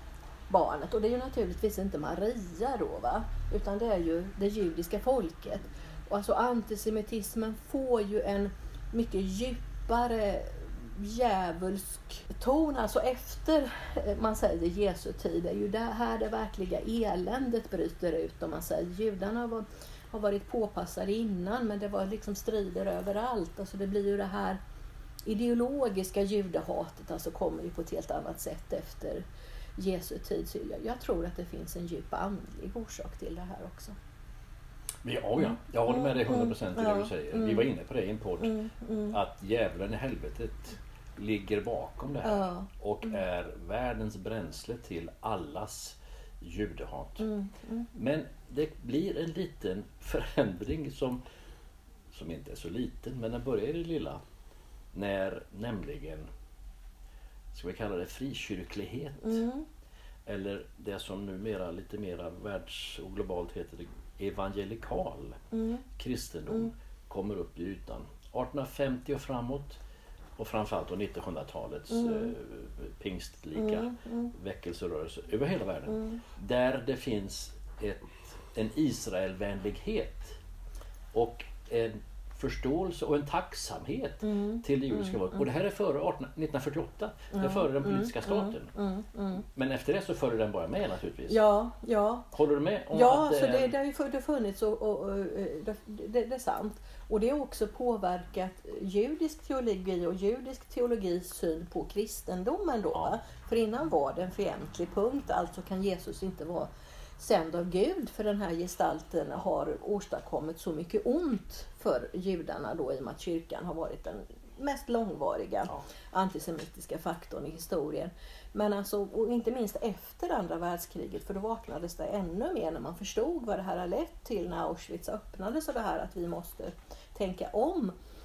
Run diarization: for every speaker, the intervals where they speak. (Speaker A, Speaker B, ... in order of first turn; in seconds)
Speaker A: 0.5-24.6, 25.2-29.2, 29.8-34.0, 35.4-37.7, 38.4-39.2, 42.2-43.2, 47.2-47.9, 59.2-59.6, 65.5-65.8, 71.9-72.3, 73.6-74.3, 75.9-76.2, 84.2-85.5, 87.3-89.4, 91.3-92.3, 92.9-127.9
Speaker B: 35.0-38.6, 39.1-47.3, 47.9-51.2, 52.1-54.2, 54.9-56.3, 57.5-59.4, 60.2-65.4, 66.0-69.8, 70.4-80.4, 81.1-88.7, 89.5-91.4, 92.3-93.7